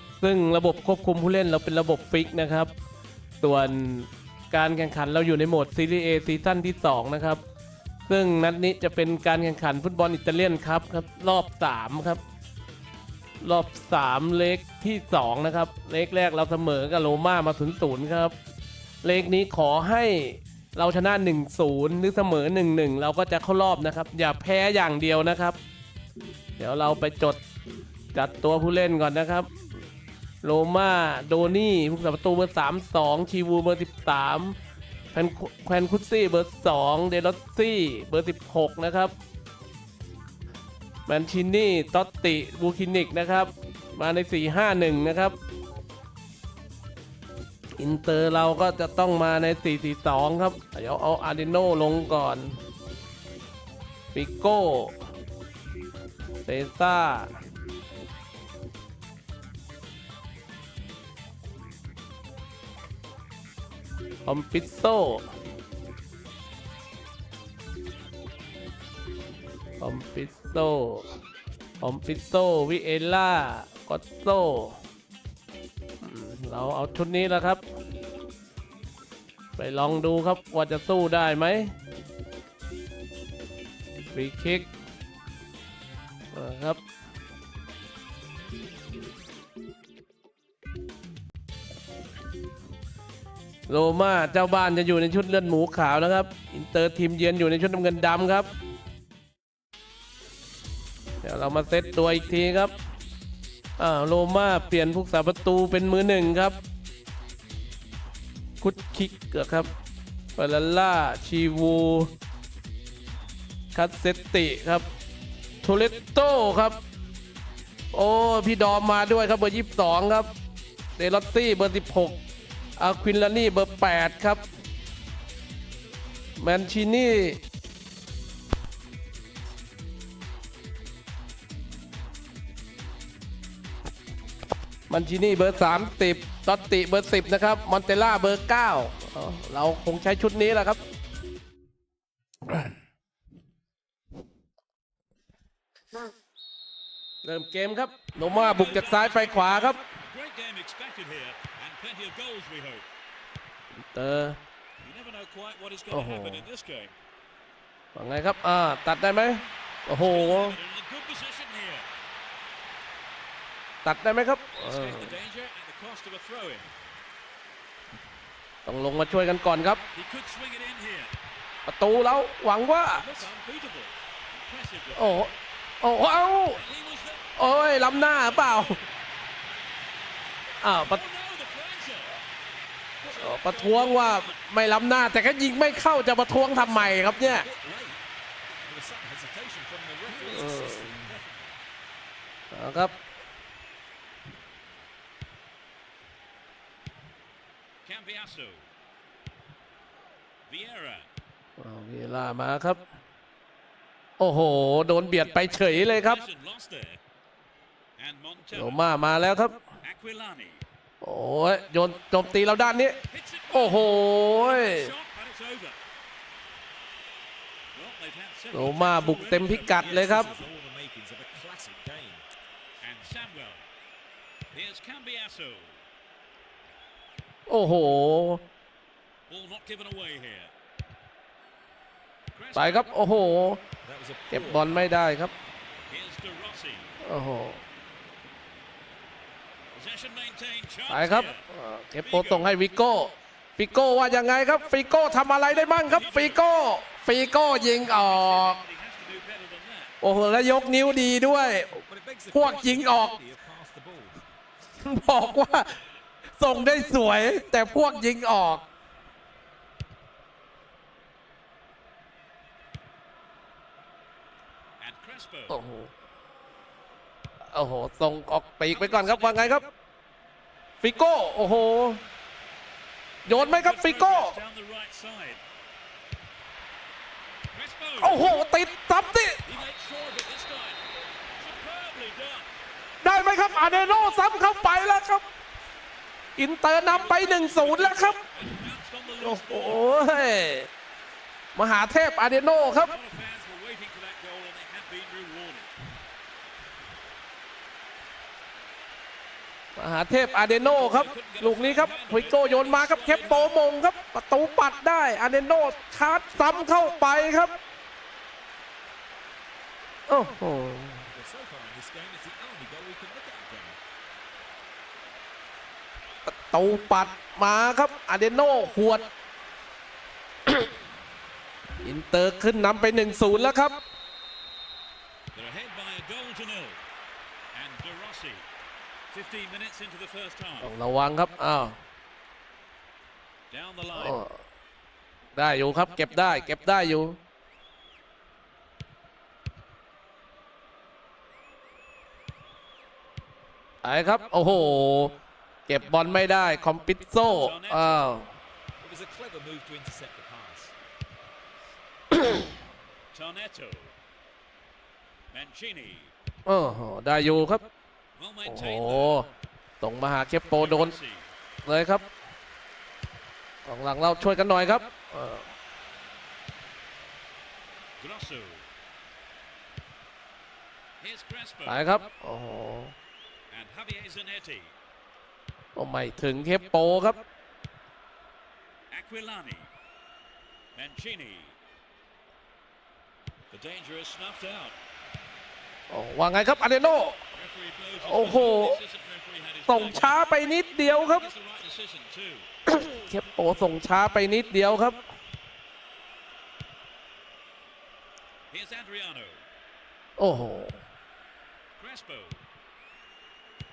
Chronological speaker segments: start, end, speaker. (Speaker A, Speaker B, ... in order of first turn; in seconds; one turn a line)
Speaker A: 0.2-2.7
Speaker A: 3.4-7.4
Speaker A: 8.1-12.2
Speaker A: 13.4-18.3
Speaker A: 19.0-25.6
Speaker A: 26.6-27.4
Speaker A: 28.1-29.5
Speaker A: 30.4-34.5
Speaker A: 35.1-39.1
Speaker A: 41.1-45.4
Speaker A: 47.8-52.6
Speaker A: 54.1-55.0
Speaker A: 56.4-57.3
Speaker A: 64.2-65.3
Speaker A: 69.8-71.1
Speaker A: 71.8-74.8
Speaker A: 76.0-77.6
Speaker A: 79.5-81.7
Speaker A: 84.0-84.7
Speaker A: 86.3-86.8
Speaker A: 93.7-98.5
Speaker A: 101.2-102.7
Speaker B: 102.4-102.7
Speaker A: 103.8-106.6
Speaker A: 108.6-109.7
Speaker A: 110.3-112.1
Speaker A: 113.7-114.8
Speaker A: 115.6-116.8
Speaker A: 117.9-120.3
Speaker A: 121.0-122.2
Speaker A: 122.8-124.4
Speaker A: 126.4-127.4
Speaker A: 134.9-140.8
Speaker A: 147.2-149.8
Speaker B: 148.1-152.9
Speaker A: 153.9-154.4
Speaker B: 154.8-156.9
Speaker A: 155.9-156.4
Speaker A: 157.9-160.6
Speaker B: 160.0-161.9
Speaker A: 163.8-165.2
Speaker B: 164.6-166.7
Speaker A: 168.7-169.8
Speaker B: 169.9-171.1
Speaker A: 171.7-173.3
Speaker B: 172.9-175.3
Speaker A: 174.9-176.6
Speaker B: 176.5-178.8
Speaker A: 177.4-178.8
Speaker A: 180.6-181.0
Speaker B: 180.8-182.2
Speaker B: 183.0-184.4
Speaker A: 183.1-187.5
Speaker B: 186.6-187.2
Speaker C: 187.0-188.0
Speaker C: 188.6-191.6
Speaker A: 190.2-191.1
Speaker A: 192.5-192.9
Speaker B: 197.8-198.7
Speaker B: 200.5-201.1
Speaker A: 201.6-202.8
Speaker A: 204.2-206.2
Speaker B: 205.8-207.0
Speaker B: 208.0-208.8
Speaker A: 208.5-209.6
Speaker B: 209.8-210.6
Speaker A: 211.0-213.0
Speaker B: 213.1-215.8
Speaker A: 213.5-214.9
Speaker B: 217.7-220.5
Speaker A: 218.5-220.3
Speaker C: 219.8-222.2
Speaker B: 222.8-223.7
Speaker B: 224.5-225.8
Speaker A: 227.5-228.4
Speaker B: 229.3-230.5
Speaker B: 232.3-233.0
Speaker A: 232.6-233.6
Speaker C: 233.8-234.9
Speaker A: 234.3-235.3
Speaker B: 235.9-236.9
Speaker A: 237.0-237.6
Speaker B: 239.7-241.4
Speaker A: 240.9-248.6
Speaker B: 242.0-242.5
Speaker B: 245.5-246.4
Speaker B: 247.1-249.9
Speaker A: 250.0-251.8
Speaker C: 251.7-254.2
Speaker A: 252.3-253.2
Speaker A: 254.8-255.7
Speaker A: 256.4-258.6
Speaker B: 264.8-265.6
Speaker A: 265.5-265.9
Speaker A: 267.5-269.7
Speaker B: 268.7-269.7
Speaker A: 270.8-272.0
Speaker A: 273.2-274.4
Speaker B: 273.2-275.4
Speaker B: 277.5-278.3
Speaker A: 278.0-279.4
Speaker B: 279.4-280.8
Speaker B: 281.4-282.5
Speaker A: 283.0-285.3
Speaker B: 283.5-284.6
Speaker A: 286.4-288.2
Speaker B: 286.8-290.1
Speaker A: 289.2-290.7
Speaker A: 291.5-292.9
Speaker B: 292.8-295.7
Speaker A: 299.8-307.6
Speaker B: 300.5-303.6
Speaker A: 310.1-311.1
Speaker C: 311.1-313.8
Speaker A: 316.2-319.1
Speaker A: 321.8-323.8
Speaker B: 325.3-326.8
Speaker B: 327.5-328.5
Speaker B: 329.1-330.7
Speaker A: 330.6-331.8
Speaker B: 333.5-334.2
Speaker A: 333.9-334.4
Speaker A: 335.4-337.2
Speaker A: 343.8-345.1
Speaker A: 345.7-348.3
Speaker B: 347.3-348.2
Speaker C: 348.8-350.7
Speaker B: 353.1-353.9
Speaker B: 355.3-356.1
Speaker A: 356.4-357.6
Speaker B: 358.1-359.3
Speaker A: 358.4-359.3
Speaker A: 359.8-360.9
Speaker B: 360.5-361.3
Speaker A: 361.6-362.1
Speaker A: 363.6-365.5
Speaker B: 368.0-368.7
Speaker B: 371.0-371.9
Speaker A: 371.6-372.9
Speaker B: 373.5-374.7
Speaker A: 375.8-377.2
Speaker B: 378.9-379.7
Speaker B: 380.7-381.6
Speaker B: 383.5-384.8
Speaker A: 385.9-387.2
Speaker B: 387.3-392.5
Speaker A: 388.0-388.8
Speaker A: 389.7-391.3
Speaker A: 392.7-395.0
Speaker B: 398.5-399.4
Speaker A: 400.2-400.8
Speaker B: 401.8-402.4